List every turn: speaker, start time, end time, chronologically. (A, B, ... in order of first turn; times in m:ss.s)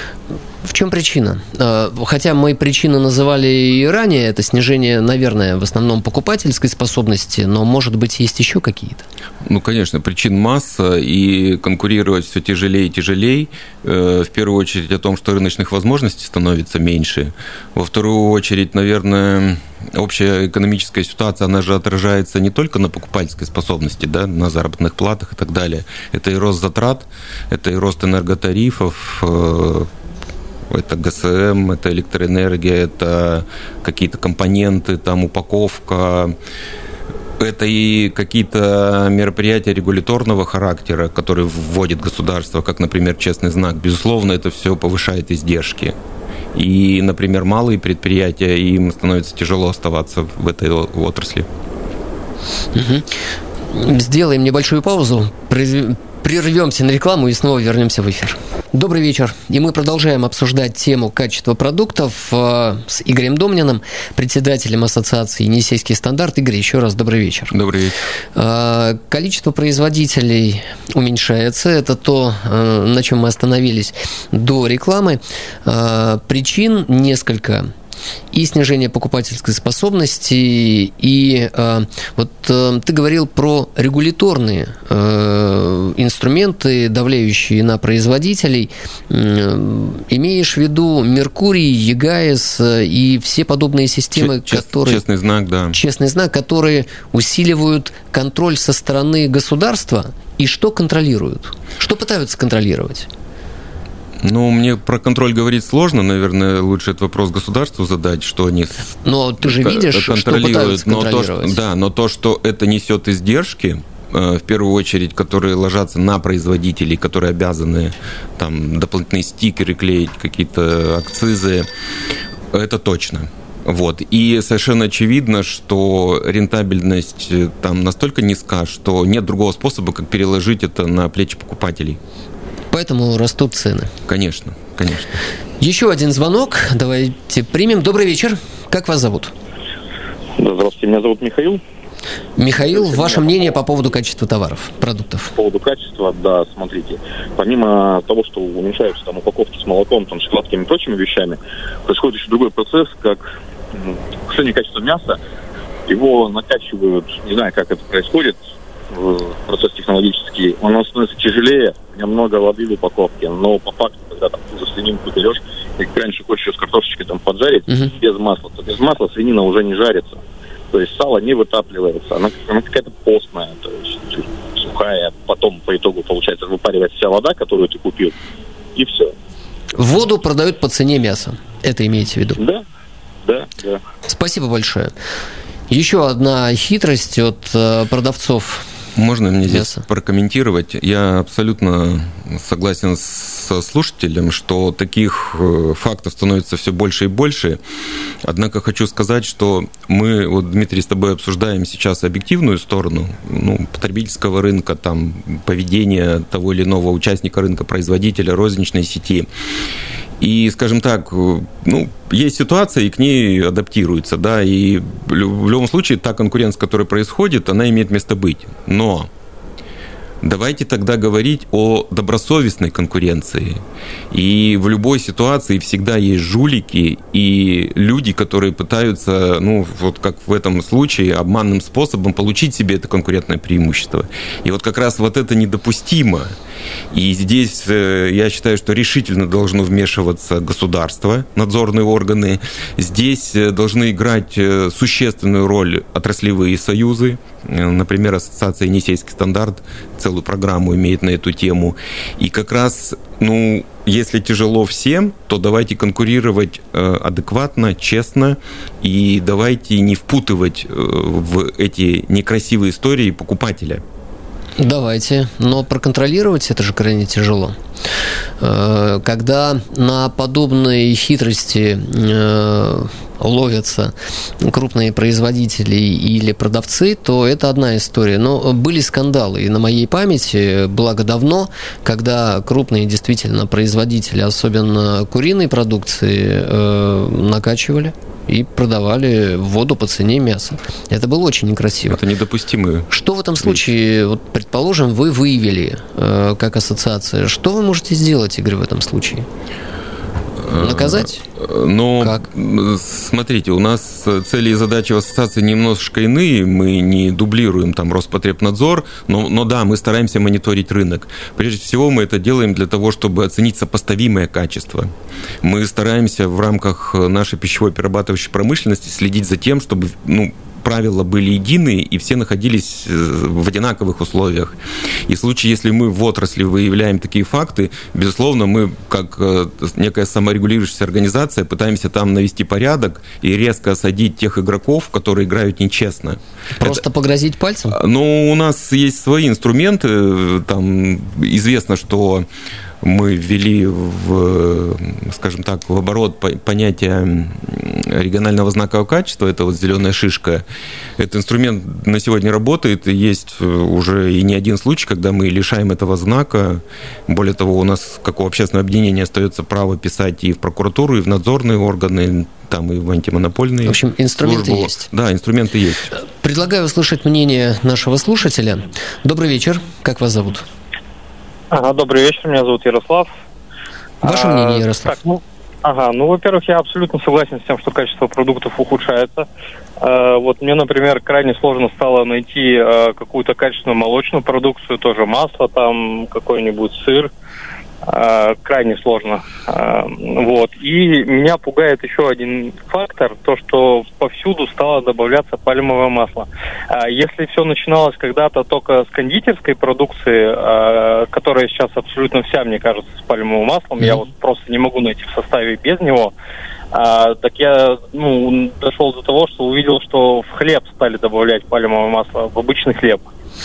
0:00.6-0:09.0 A
0:09.4-0:29.9 B
0:30.7-0:36.4 B
0:37.4-0:45.9 B
0:46.5-0:51.5 B
0:52.7-0:53.1 A
0:53.7-1:07.5 A
1:07.5-1:08.0 B
1:08.3-1:17.7 A
1:18.3-1:35.0 A
1:34.1-1:35.8 B
1:35.7-1:43.1 A
1:44.2-2:01.7 B
1:49.0-1:51.6 A
2:02.5-2:12.0 B
2:12.7-2:13.9 A
2:14.1-2:15.2 B
2:15.6-2:19.3 A
2:20.4-2:21.6 C
2:22.4-2:25.3 A
2:22.6-2:23.3 C
2:25.3-2:35.2 C
2:35.9-2:38.4 C
2:38.9-2:58.2 C
2:58.7-2:59.1 C
2:59.7-3:02.4 A
3:02.4-3:02.6 C
3:03.2-3:03.8 C
3:04.0-3:04.9 A
3:05.7-3:08.6 A
3:09.0-3:17.6 B
3:09.5-3:09.8 A
3:18.2-3:29.3 B
3:30.2-3:39.1 B
3:40.2-3:56.3 B
3:56.9-4:23.8 B
4:24.6-4:27.6 A
4:28.4-4:52.0 A
4:51.9-4:52.9 B
4:52.9-4:59.3 A
4:53.4-4:53.7 B
5:00.4-5:14.9 B
5:00.5-5:01.2 A
5:02.0-5:02.2 A
5:15.4-5:36.8 B
5:36.6-5:37.8 A
5:37.7-5:42.2 B
5:42.8-5:50.4 B
5:51.0-6:05.9 B
6:03.6-6:04.9 A
6:06.0-6:10.5 A
6:11.5-6:13.1 D
6:14.0-6:14.9 A
6:14.0-6:19.3 D
6:19.8-6:27.1 D
6:27.8-6:46.1 D
6:46.7-6:53.0 D